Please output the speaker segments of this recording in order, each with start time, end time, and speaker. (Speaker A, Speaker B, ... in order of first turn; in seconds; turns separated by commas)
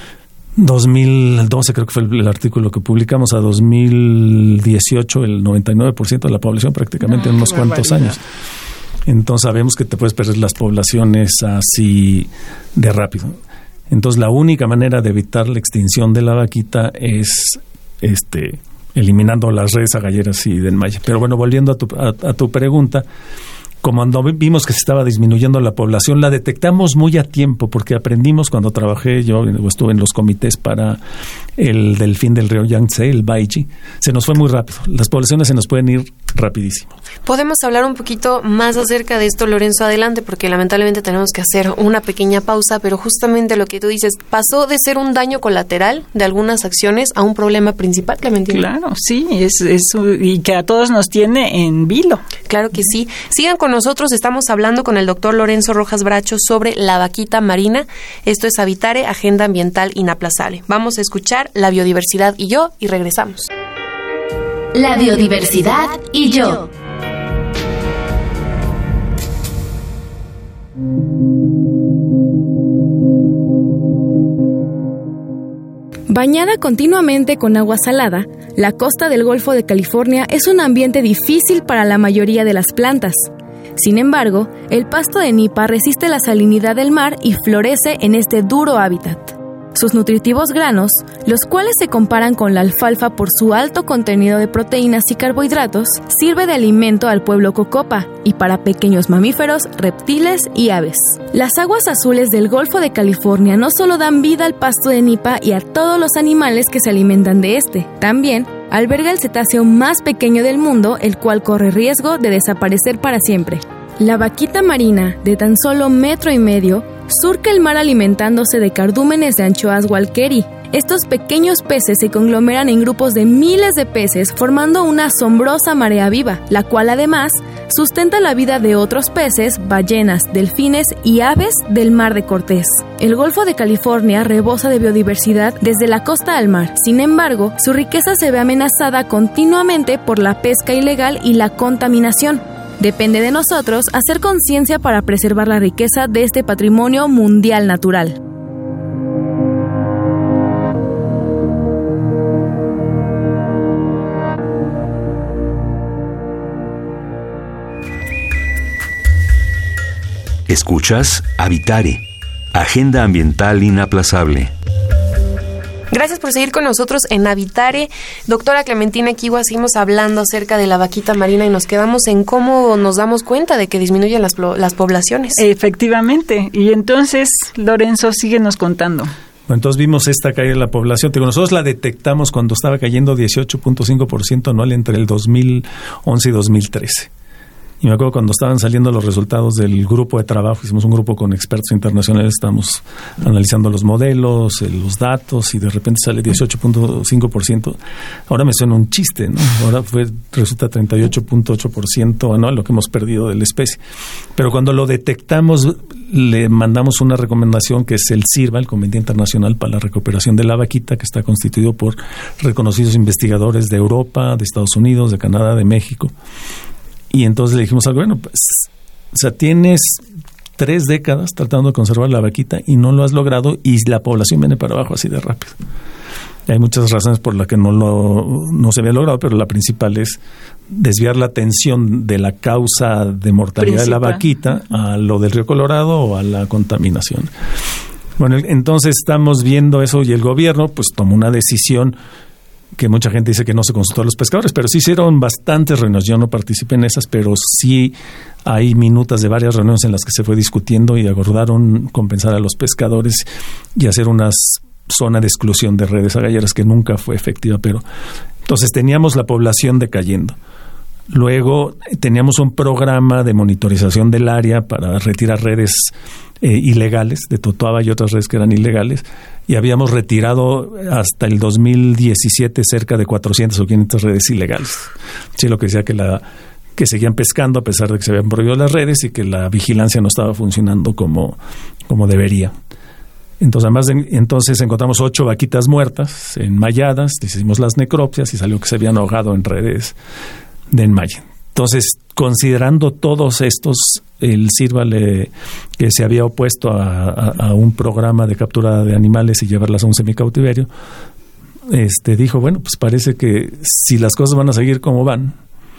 Speaker A: 0.6-8.2, Speaker B: 7.1-8.1, Speaker A: 9.1-23.1, Speaker A: 23.8-31.0, Speaker A: 31.6-36.9, Speaker C: 37.3-48.7, Speaker B: 48.5-52.2, Speaker C: 52.5-63.5, Speaker C: 64.9-66.6, Speaker D: 76.1-148.2, Speaker E: 160.5-164.5, Speaker C: 165.9-175.4, Speaker B: 175.4-179.1, Speaker A: 179.5-187.1, Speaker A: 187.8-203.8, Speaker A: 204.3-216.1, Speaker A: 217.1-220.0, Speaker A: 220.6-225.6, Speaker A: 226.5-230.2, Speaker A: 230.7-237.3, Speaker B: 233.6-234.2, Speaker A: 238.2-242.0, Speaker A: 242.8-257.8, Speaker A: 258.4-260.4, Speaker A: 261.1-276.2, Speaker A: 276.8-282.6, Speaker A: 283.4-290.0, Speaker A: 290.7-300.7, Speaker A: 301.7-305.4